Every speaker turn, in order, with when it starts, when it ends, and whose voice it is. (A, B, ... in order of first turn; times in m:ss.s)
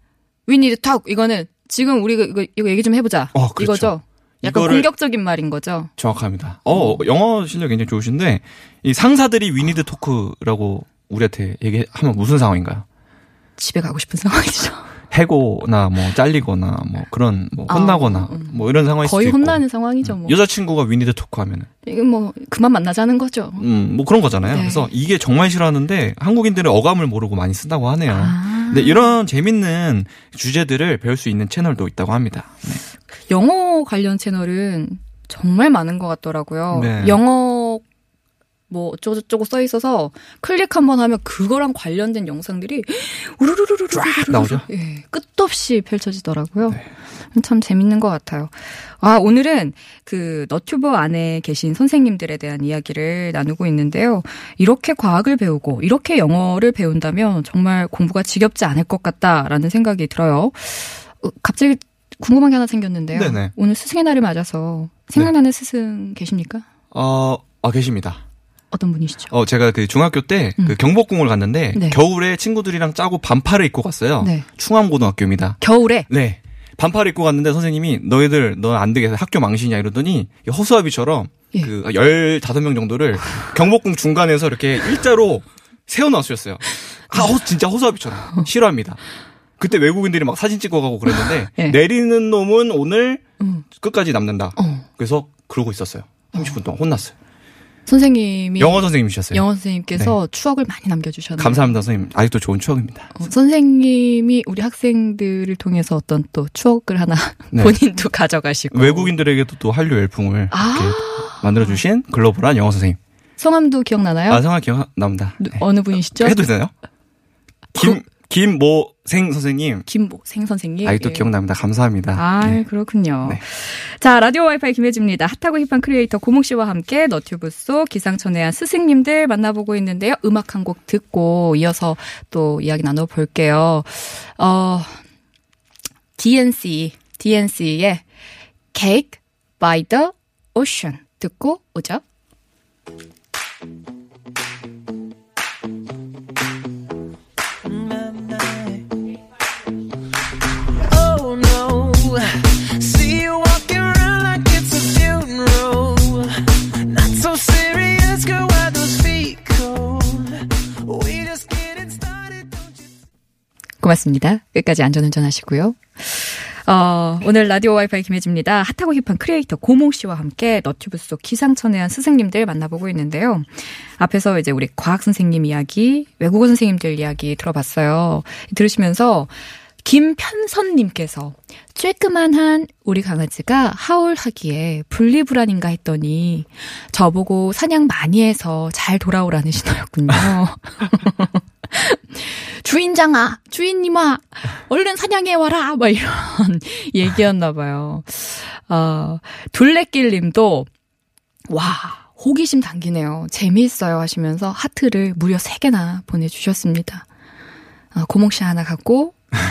0:00.4-0:05.9 A
0:03.3-0:04.9 B
0:06.0-0:12.8 B
0:13.6-0:14.9 A
0:15.1-0:21.7 B
0:17.7-0:20.4 A
0:21.8-0:23.7 A
0:23.6-0:32.8 B
0:24.5-0:24.9 A
0:28.1-0:29.2 A
0:33.3-0:37.8 A
0:36.7-0:37.2 B
0:38.7-1:06.6 A
0:43.9-0:44.6 B
1:03.1-1:03.5 B
1:06.9-1:08.2 B
1:08.7-1:09.3 A
1:09.3-1:29.0 B
1:11.7-1:12.0 A
1:14.2-1:14.5 A
1:15.6-1:16.1 A
1:29.6-1:33.2 B
1:31.1-1:31.8 A
1:33.4-1:33.6 A
1:33.8-1:37.1 B
1:34.6-1:34.9 A
1:37.9-1:41.8 A
1:38.6-1:39.4 B
1:41.4-1:43.1 B
1:43.1-1:49.1 A
1:48.7-1:53.0 B
1:50.5-1:51.8 A
1:53.4-1:54.4 A
1:54.3-1:56.7 B
1:55.4-1:56.4 A
1:57.8-1:59.9 B
1:59.9-2:01.3 A
2:00.8-2:02.6 B
2:02.1-2:15.0 A
2:16.2-2:18.0 A
2:18.7-2:22.0 A
2:27.6-2:28.9 C
2:30.8-2:42.8 C
2:43.8-3:20.7 A
3:21.5-3:27.1 A
3:27.9-3:29.2 A